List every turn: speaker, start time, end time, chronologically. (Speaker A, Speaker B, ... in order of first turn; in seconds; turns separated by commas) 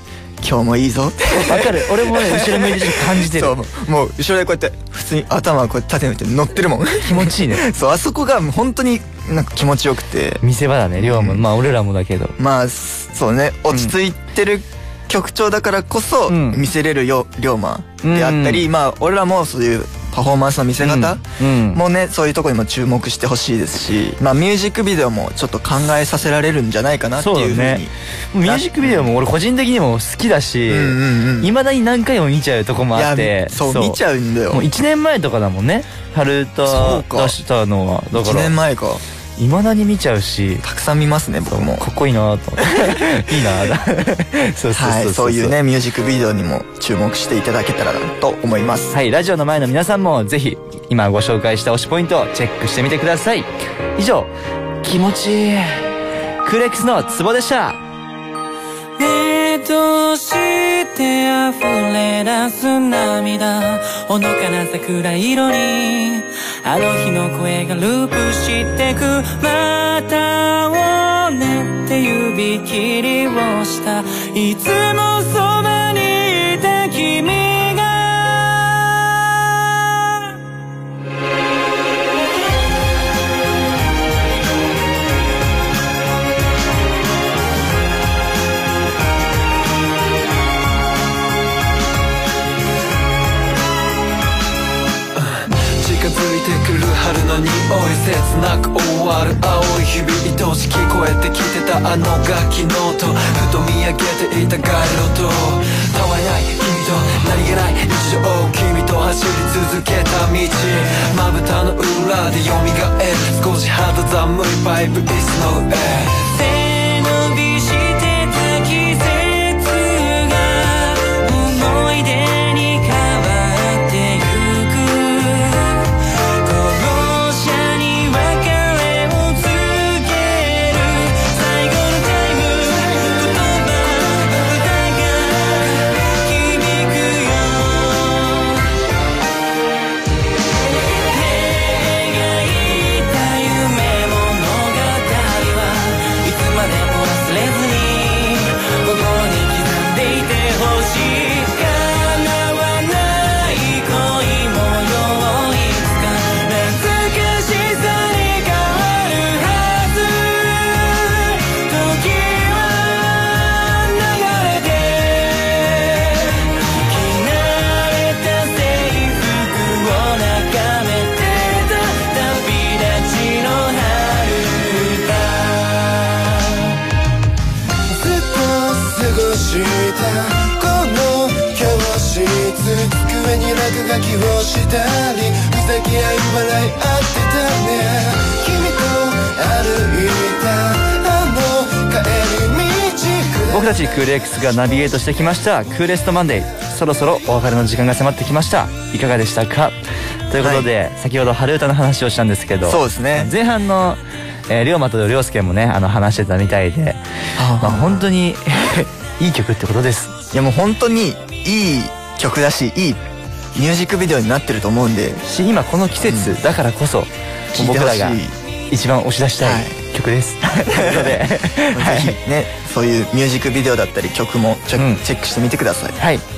Speaker A: 0.4-10.4, Speaker B: 1.3-3.6, Speaker B: 7.0-7.7, Speaker B: 10.4-12.3, Speaker A: 11.0-11.4, Speaker A: 12.4-27.9, Speaker B: 16.3-16.6, Speaker B: 18.0-18.7, Speaker B: 20.8-21.8, Speaker B: 27.2-34.0, Speaker A: 28.4-29.1, Speaker A: 30.7-31.5, Speaker A: 33.0-34.7, Speaker B: 34.5-38.5, Speaker A: 36.7-37.4, Speaker A: 38.1-39.0, Speaker B: 39.4-40.6, Speaker A: 40.6-41.9, Speaker B: 41.5-45.6, Speaker A: 44.8-49.0, Speaker B: 48.9-54.3, Speaker B: 54.8-55.9, Speaker B: 56.4-57.8, Speaker C: 59.0-79.9, Speaker D: 95.2-116.2, Speaker C: 116.2-125.9, Speaker C: 126.4-138.6, Speaker C: 141.0-176.6, Speaker E: 177.9-193.7, Speaker B: 193.5-199.8, Speaker B: 200.3-207.0, Speaker A: 200.4-200.7, Speaker A: 202.7-203.3, Speaker A: 207.4-208.0, Speaker B: 207.6-210.2, Speaker A: 210.3-213.0, Speaker A: 213.6-215.2, Speaker B: 215.3-222.2, Speaker A: 216.1-216.3, Speaker A: 217.6-218.3, Speaker A: 219.4-219.8, Speaker A: 220.7-226.0, Speaker B: 224.8-225.0